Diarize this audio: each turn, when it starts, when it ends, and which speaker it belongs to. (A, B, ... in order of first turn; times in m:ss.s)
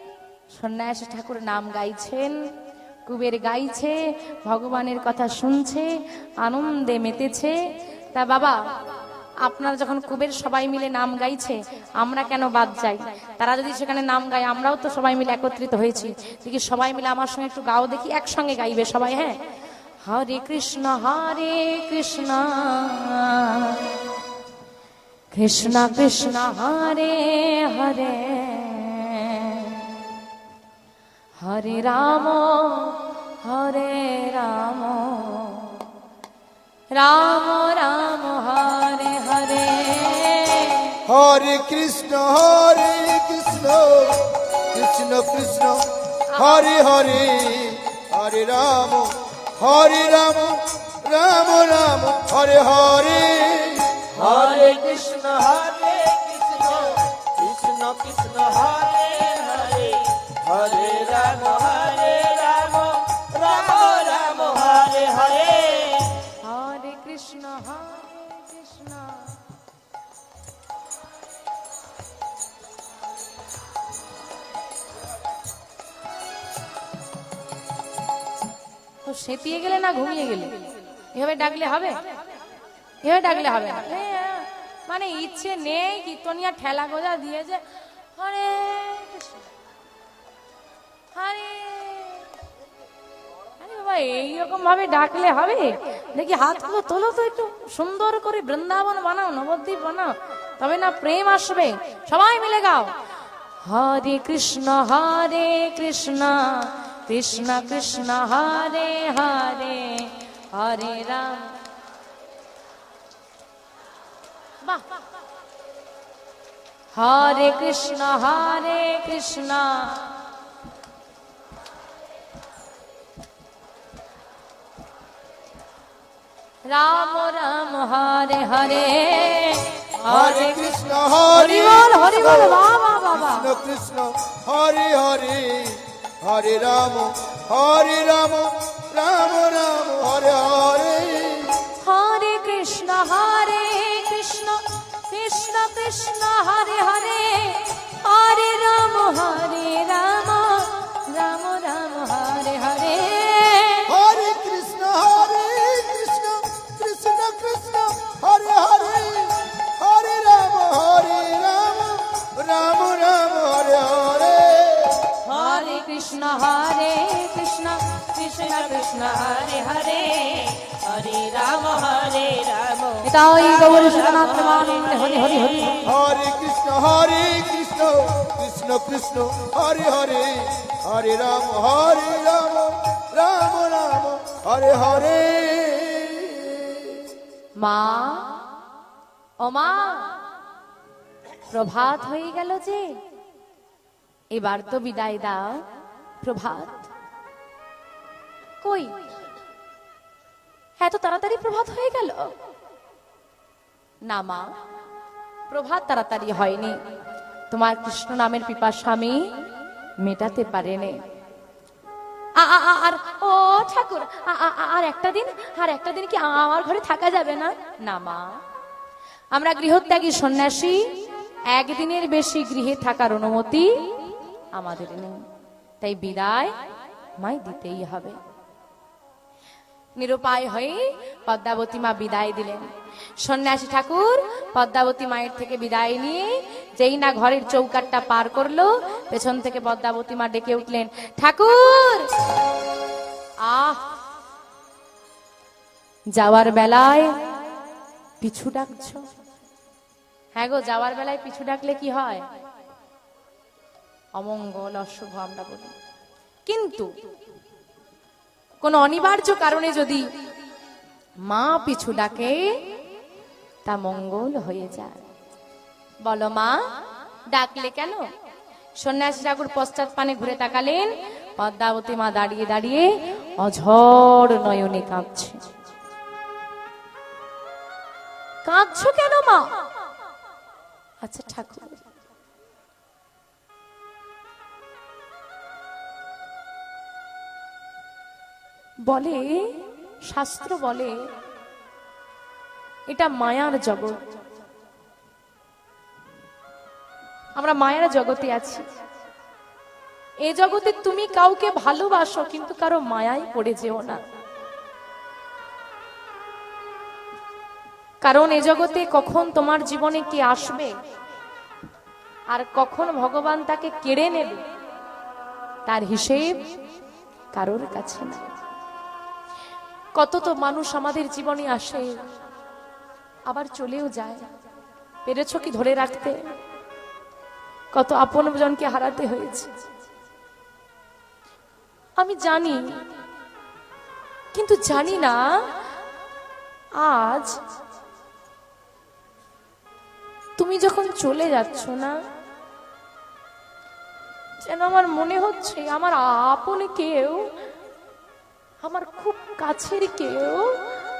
0:00.5-0:02.4 A
0:03.0-0:05.9 A
0:06.4-0:07.5 A
0:08.1-0:08.6 A
0:09.4-0:19.4 A
0:20.0-0:23.9 A
0:25.3-0:29.9 A
0:31.4-0:35.8 A
0:36.9-0:41.0 A
0:41.0-0:55.2 B
0:46.3-0:46.8 A
0:54.2-1:06.2 C
0:57.6-0:58.2 B
1:00.5-1:01.0 B
1:06.4-1:09.4 A
1:19.0-1:22.0 A
1:23.0-1:27.6 A
1:28.1-1:29.5 A
1:31.1-1:32.3 A
1:33.6-1:42.9 A
1:43.6-1:51.5 A
1:56.9-2:00.1 A
2:06.7-2:10.8 A
2:10.0-2:21.6 B
2:11.3-2:13.5 A
2:21.8-2:33.9 A
2:33.9-2:45.1 B
2:45.3-2:48.9 A
2:45.3-2:45.8 C
2:48.2-2:55.7 C
2:53.0-2:55.9 A
2:55.8-3:07.0 B
3:07.6-3:08.4 A
3:09.4-3:10.2 A
3:11.5-3:13.0 A
3:14.3-3:15.6 A
3:16.2-3:16.9 A
3:18.6-3:19.0 A
3:20.8-3:22.3 A
3:24.1-3:24.5 A
3:25.5-3:26.8 A
3:27.5-3:29.3 A
3:30.0-3:31.0 A
3:32.4-3:38.4 A
3:39.3-3:40.9 A
3:41.5-3:43.7 A
3:44.5-3:45.2 A
3:45.8-3:46.5 A
3:47.2-3:48.2 A
3:50.0-3:52.6 A
3:53.2-4:02.1 A
4:03.4-4:03.8 A
4:06.1-4:07.2 A
4:08.2-4:09.0 A
4:10.4-4:12.2 A
4:14.1-4:15.7 A
4:16.4-4:16.9 A
4:18.6-4:20.1 A
4:21.2-4:22.5 A
4:23.6-4:25.0 A
4:26.0-4:26.6 A
4:27.3-4:28.0 A
4:28.8-4:35.4 A
4:38.4-4:39.5 A
4:41.0-4:41.8 A
4:48.8-4:50.9 A
4:52.9-4:54.0 A
4:57.4-4:58.6 A
5:00.2-5:04.0 A
5:08.0-5:10.7 A
5:12.3-5:14.4 A
5:15.6-5:16.4 A
5:17.3-5:18.4 A
5:20.0-5:21.9 A
5:23.3-5:24.2 A
5:25.0-5:26.2 A
5:27.7-5:29.6 A
5:32.0-5:32.8 A
5:34.3-5:35.2 A
5:36.8-5:37.4 A
5:40.4-5:42.0 A
5:44.4-5:47.3 A
5:48.6-5:50.6 A